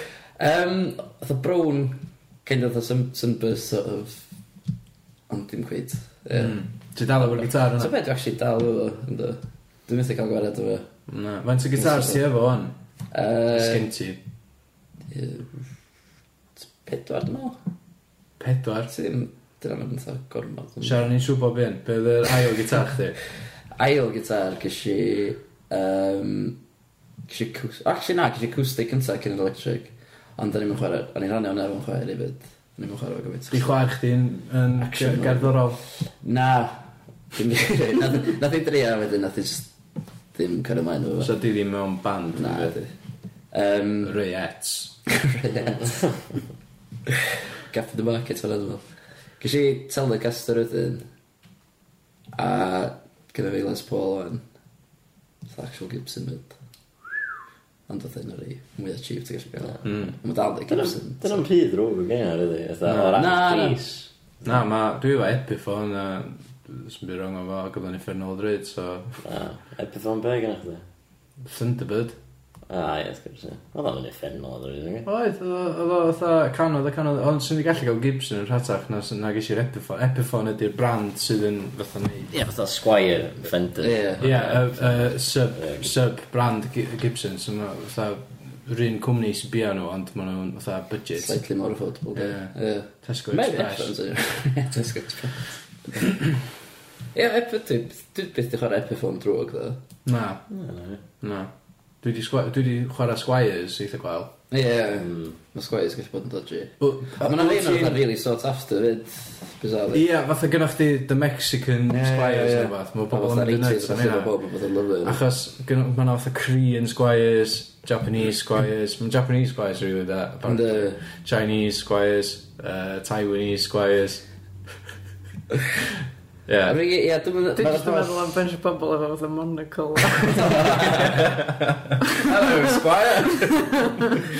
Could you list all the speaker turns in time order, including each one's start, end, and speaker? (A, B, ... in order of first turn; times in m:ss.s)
0:00.4-0:04.2 A
0:05.3-0:06.6 A
0:06.4-0:07.9 B
0:07.2-0:10.9 A
0:11.1-0:12.7 B
0:11.8-0:12.2 A
0:13.1-0:13.9 A
0:13.5-0:14.2 B
0:15.1-0:15.6 A
0:16.6-0:17.6 A
0:18.4-0:18.9 B
0:18.9-0:21.0 A
0:20.8-0:23.2 B
0:23.8-0:26.6 A
0:27.3-0:33.8 A
0:33.5-0:35.8 B
0:34.8-0:39.7 A
0:40.3-0:41.3 A
0:41.2-0:42.7 B
0:42.3-0:42.9 A
0:43.5-0:44.2 A
0:44.0-0:44.9 B
0:45.1-0:46.1 A
0:47.7-0:48.8 A
0:49.4-0:51.0 A
0:52.4-0:54.4 A
0:55.5-0:56.5 A
0:57.9-1:01.4 A
0:59.8-1:00.1 B
1:00.7-1:04.0 C
1:02.8-1:03.2 B
1:03.2-1:03.9 A
1:04.4-1:09.2 B
1:09.2-1:10.8 C
1:11.4-1:12.2 B
1:12.7-1:15.1 C
1:15.0-1:22.3 B
1:22.3-1:25.9 C
1:23.8-1:24.2 A
1:24.2-1:31.4 B
1:31.2-1:35.5 A
1:32.1-1:33.9 B
1:37.1-1:39.8 A
1:40.0-1:40.4 B
1:40.5-1:41.0 C
1:41.2-1:41.5 B
1:42.0-1:44.3 B
1:44.5-1:50.0 A
1:45.0-1:45.3 C
1:46.8-1:48.0 B
1:49.9-1:54.3 B
1:51.9-1:55.2 A
1:55.0-2:04.2 B
2:00.4-2:01.0 A
2:06.5-2:06.8 B
2:06.6-2:08.3 A
2:07.6-2:11.0 D
2:10.3-2:11.2 A
2:11.2-2:11.5 B
2:12.2-2:13.5 A